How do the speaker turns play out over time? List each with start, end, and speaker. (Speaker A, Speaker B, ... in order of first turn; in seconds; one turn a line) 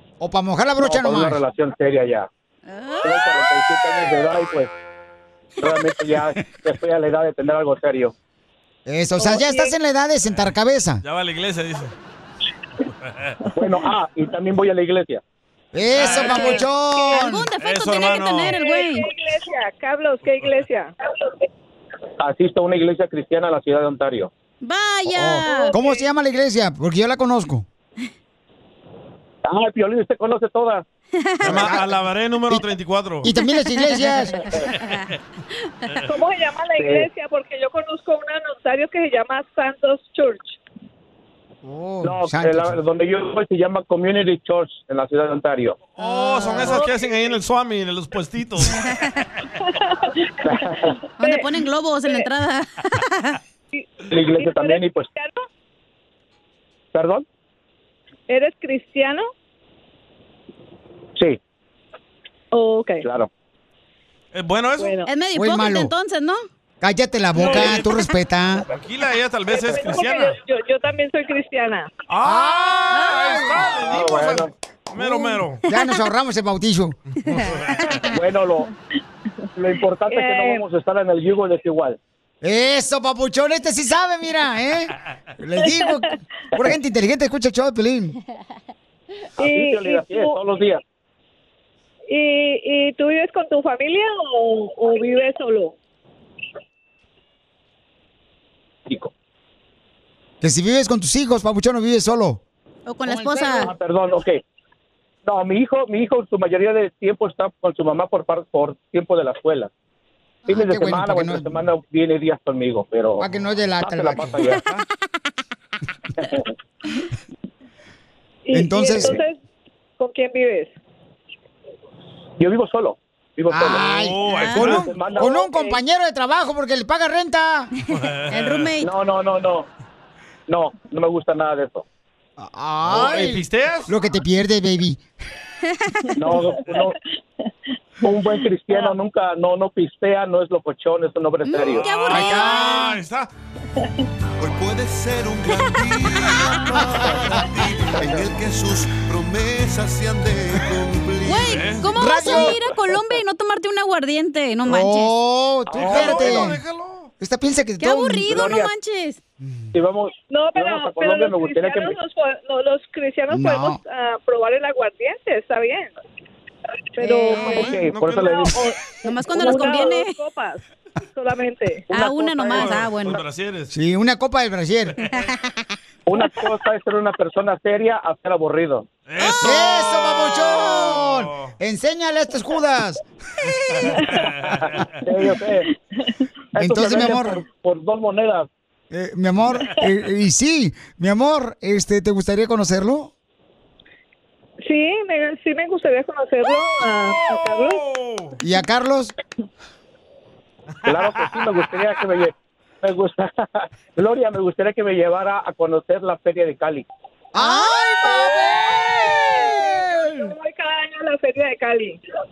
Speaker A: 0.2-1.4
Speaker B: 0.8-2.3
Speaker C: 2.7-3.4
Speaker B: 3.0-4.7
Speaker B: 5.6-8.1
Speaker A: 8.9-11.0
Speaker D: 9.2-9.8
Speaker E: 11.0-11.9
Speaker E: 13.0-13.4
Speaker B: 13.6-15.2
Speaker A: 15.7-17.5
Speaker E: 15.9-16.6
Speaker C: 16.2-19.1
Speaker E: 17.6-18.6
Speaker D: 18.5-20.9
Speaker B: 22.2-24.3
Speaker C: 24.6-25.8
Speaker A: 25.1-27.7
Speaker D: 25.3-26.1
Speaker B: 29.4-30.8
Speaker C: 31.2-31.6
Speaker A: 31.4-32.0
Speaker E: 31.4-33.3
Speaker A: 33.2-34.5
Speaker C: 33.7-34.1
Speaker D: 36.0-40.6
Speaker B: 36.8-37.1
Speaker A: 41.6-42.8
Speaker B: 42.0-45.8
Speaker E: 45.9-48.8
Speaker A: 46.0-46.8
Speaker D: 49.6-50.5
Speaker D: 51.2-51.5
Speaker C: 51.2-53.4
Speaker D: 53.7-55.4
Speaker B: 54.1-55.1
Speaker B: 56.9-57.2
Speaker D: 58.3-59.3
Speaker D: 62.5-63.0
Speaker B: 63.0-63.3
Speaker E: 64.3-65.0
Speaker D: 64.8-65.1
Speaker C: 65.1-66.5
Speaker A: 65.3-65.9
Speaker A: 66.8-68.7
Speaker E: 67.4-68.0
Speaker E: 68.6-70.4
Speaker D: 69.5-71.9
Speaker E: 72.1-75.6
Speaker A: 72.2-73.8
Speaker C: 72.9-73.4
Speaker B: 73.8-74.5
Speaker A: 75.0-77.0
Speaker E: 77.2-78.0
Speaker B: 78.1-78.7
Speaker B: 79.6-82.0
Speaker D: 80.1-80.6
Speaker A: 82.4-88.2
Speaker D: 85.7-86.0
Speaker D: 89.4-90.4
Speaker B: 89.4-90.8
Speaker D: 92.1-95.8
Speaker A: 100.4-102.4
Speaker C: 102.9-103.7
Speaker A: 103.1-103.7
Speaker B: 103.6-104.4
Speaker B: 105.3-109.7
Speaker A: 110.5-111.6
Speaker B: 110.5-113.2
Speaker A: 113.2-114.6
Speaker B: 113.8-114.6
Speaker D: 118.5-119.4
Speaker A: 118.5-119.2
Speaker D: 120.0-120.7
Speaker B: 122.4-123.8
Speaker A: 123.5-127.7
Speaker E: 123.8-124.9
Speaker C: 124.3-124.8
Speaker B: 124.7-125.2
Speaker D: 125.2-125.8
Speaker E: 127.9-128.7
Speaker C: 128.3-128.9
Speaker B: 128.8-129.7
Speaker B: 130.5-131.8
Speaker A: 132.4-135.0
Speaker E: 132.8-133.9
Speaker B: 136.2-136.9
Speaker D: 136.3-136.9
Speaker B: 138.0-141.8
Speaker D: 138.7-138.9
Speaker C: 141.4-142.8
Speaker E: 141.8-143.3
Speaker A: 142.1-142.9
Speaker F: 144.7-146.7
Speaker F: 148.0-151.4
Speaker C: 151.2-155.1
Speaker E: 151.4-151.9
Speaker A: 151.9-152.6
Speaker A: 154.7-156.6
Speaker B: 155.7-156.4
Speaker E: 155.8-157.1
Speaker A: 157.2-158.6
Speaker C: 157.8-159.2
Speaker B: 158.3-158.7
Speaker A: 159.4-159.7
Speaker B: 159.7-161.9
Speaker D: 160.3-165.9
Speaker A: 163.3-163.8
Speaker D: 167.0-167.8
Speaker C: 167.0-167.8
Speaker E: 167.5-168.7
Speaker B: 167.5-168.4
Speaker D: 168.3-170.6
Speaker C: 169.0-170.1
Speaker D: 171.1-172.7
Speaker C: 171.9-173.2
Speaker E: 172.5-173.7
Speaker A: 173.7-175.0
Speaker B: 176.1-178.8
Speaker E: 179.1-181.5
Speaker A: 179.4-183.0
Speaker E: 183.5-185.0
Speaker B: 185.1-185.6
Speaker B: 186.6-188.5
Speaker A: 186.6-187.4
Speaker A: 188.9-193.1
Speaker D: 194.6-197.8
Speaker E: 197.1-198.4
Speaker A: 198.4-199.1
Speaker E: 200.8-201.9
Speaker B: 200.9-203.3
Speaker B: 204.0-206.8
Speaker A: 207.3-210.3
Speaker C: 207.4-207.8
Speaker D: 208.0-212.0